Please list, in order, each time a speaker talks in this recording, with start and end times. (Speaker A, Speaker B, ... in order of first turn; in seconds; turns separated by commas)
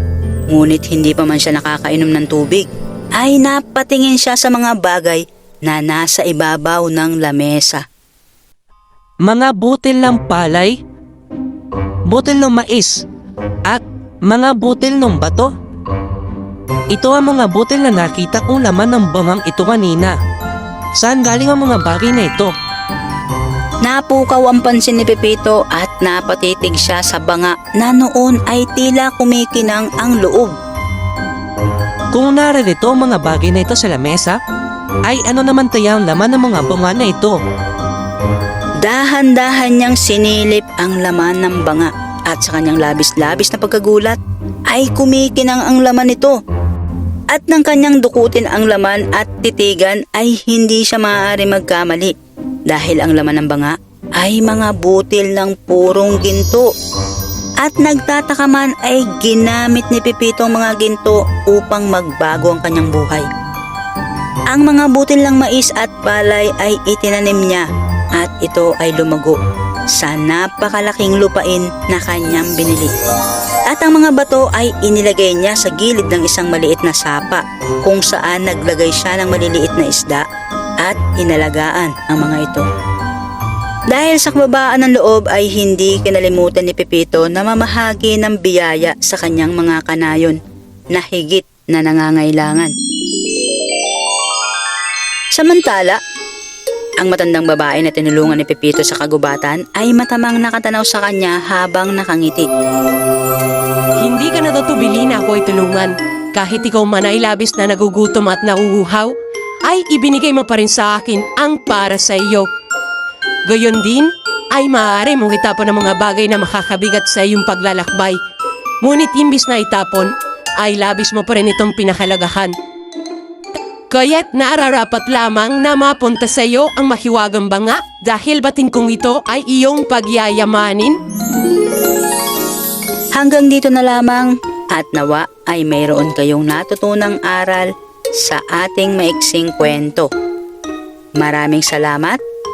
Speaker A: 0.5-7.8, Speaker B: 9.2-10.7, Speaker B: 12.1-13.0, Speaker B: 13.7-15.5, Speaker B: 16.9-20.1, Speaker B: 21.0-22.5, Speaker A: 23.8-30.5, Speaker B: 32.1-34.4, Speaker B: 35.0-37.4, Speaker A: 38.8-44.2, Speaker A: 44.7-46.4, Speaker A: 47.3-52.1, Speaker A: 52.7-56.7, Speaker A: 57.6-63.3, Speaker A: 64.5-67.7, Speaker A: 68.2-69.4, Speaker A: 69.9-72.9, Speaker A: 73.7-80.2, Speaker A: 80.8-82.6, Speaker A: 83.9-90.4, Speaker A: 90.9-92.7, Speaker A: 95.3-96.0, Speaker A: 97.0-102.5, Speaker C: 104.0-109.1, Speaker C: 109.7-112.5, Speaker C: 113.5-118.2, Speaker C: 118.8-122.5, Speaker C: 123.9-131.0, Speaker A: 133.1-140.1, Speaker A: 141.2-142.2